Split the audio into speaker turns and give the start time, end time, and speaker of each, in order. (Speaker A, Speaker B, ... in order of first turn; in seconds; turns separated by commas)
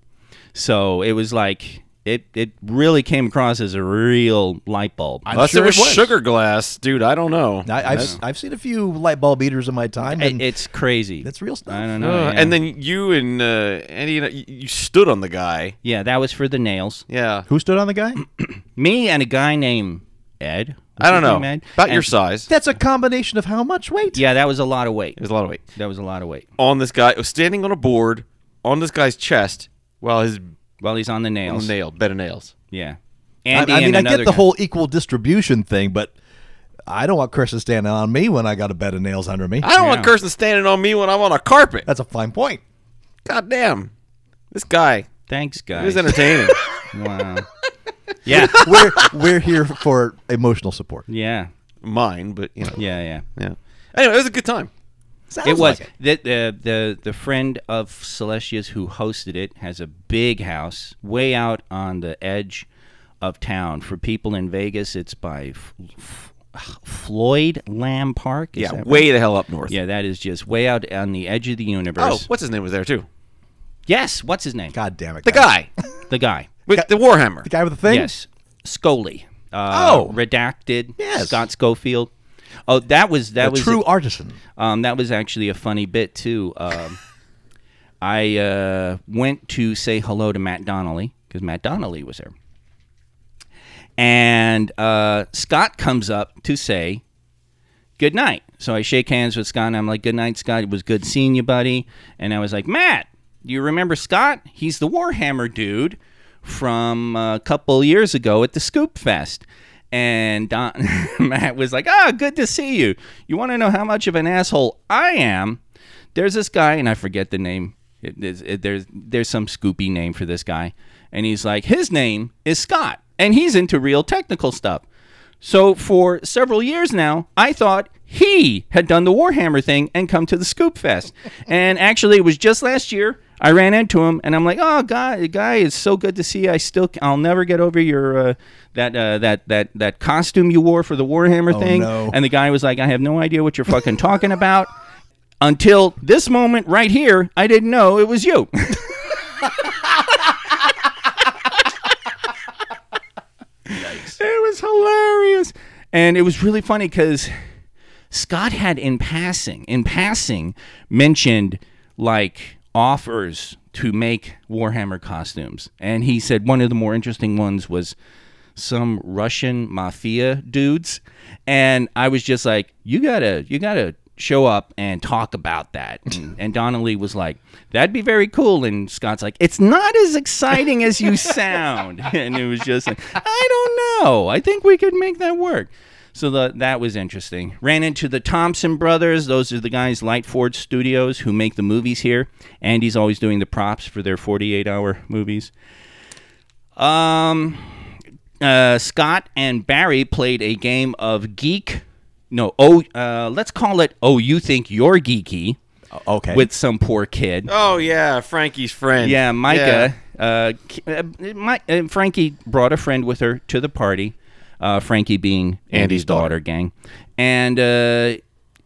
Speaker A: 0.5-5.3, Speaker B: 5.3-6.1, Speaker C: 5.3-8.2, Speaker B: 7.6-10.4, Speaker A: 10.1-12.6, Speaker B: 11.2-11.9, Speaker C: 12.0-15.7, Speaker A: 15.8-17.0, Speaker C: 17.1-17.5, Speaker B: 17.5-18.2, Speaker A: 18.3-22.1, Speaker C: 21.0-22.5, Speaker B: 22.5-24.2, Speaker A: 24.1-25.2, Speaker C: 25.2-25.6, Speaker A: 25.7-26.4, Speaker C: 26.6-30.4, Speaker A: 30.8-31.7, Speaker C: 31.5-32.5, Speaker A: 32.7-34.5, Speaker B: 33.5-36.1, Speaker B: 36.9-39.7, Speaker C: 39.6-41.9, Speaker A: 39.8-40.1, Speaker B: 41.9-42.6, Speaker C: 43.2-43.9, Speaker C: 44.5-45.1, Speaker A: 45.3-46.3, Speaker C: 45.7-46.6, Speaker A: 46.9-47.5, Speaker A: 48.2-48.8, Speaker B: 48.3-51.0, Speaker C: 48.6-49.1, Speaker A: 51.1-51.5, Speaker C: 51.8-52.8, Speaker A: 52.8-53.2, Speaker C: 53.4-54.7, Speaker B: 55.3-55.9, Speaker A: 55.4-62.7, Speaker A: 63.2-69.1, Speaker C: 68.6-69.7, Speaker A: 69.7-72.3, Speaker C: 72.0-73.1, Speaker A: 73.9-74.7, Speaker B: 74.7-75.5, Speaker C: 75.2-75.7, Speaker A: 76.1-76.5, Speaker C: 76.7-77.5, Speaker B: 77.4-78.1, Speaker A: 77.9-82.1, Speaker B: 79.7-80.2, Speaker B: 81.0-81.4, Speaker A: 82.7-83.8, Speaker B: 83.4-84.4, Speaker A: 84.5-87.0, Speaker A: 88.0-92.3, Speaker A: 94.0-97.0, Speaker A: 98.0-115.6, Speaker A: 116.1-124.8, Speaker A: 125.4-144.7, Speaker B: 141.5-142.2, Speaker A: 145.4-149.1, Speaker A: 153.7-157.3, Speaker A: 158.1-167.9, Speaker A: 168.6-195.5, Speaker A: 196.8-197.8, Speaker A: 198.4-205.6, Speaker B: 205.9-206.5, Speaker A: 206.3-207.5, Speaker C: 207.5-209.9, Speaker A: 209.0-218.2, Speaker C: 215.7-216.3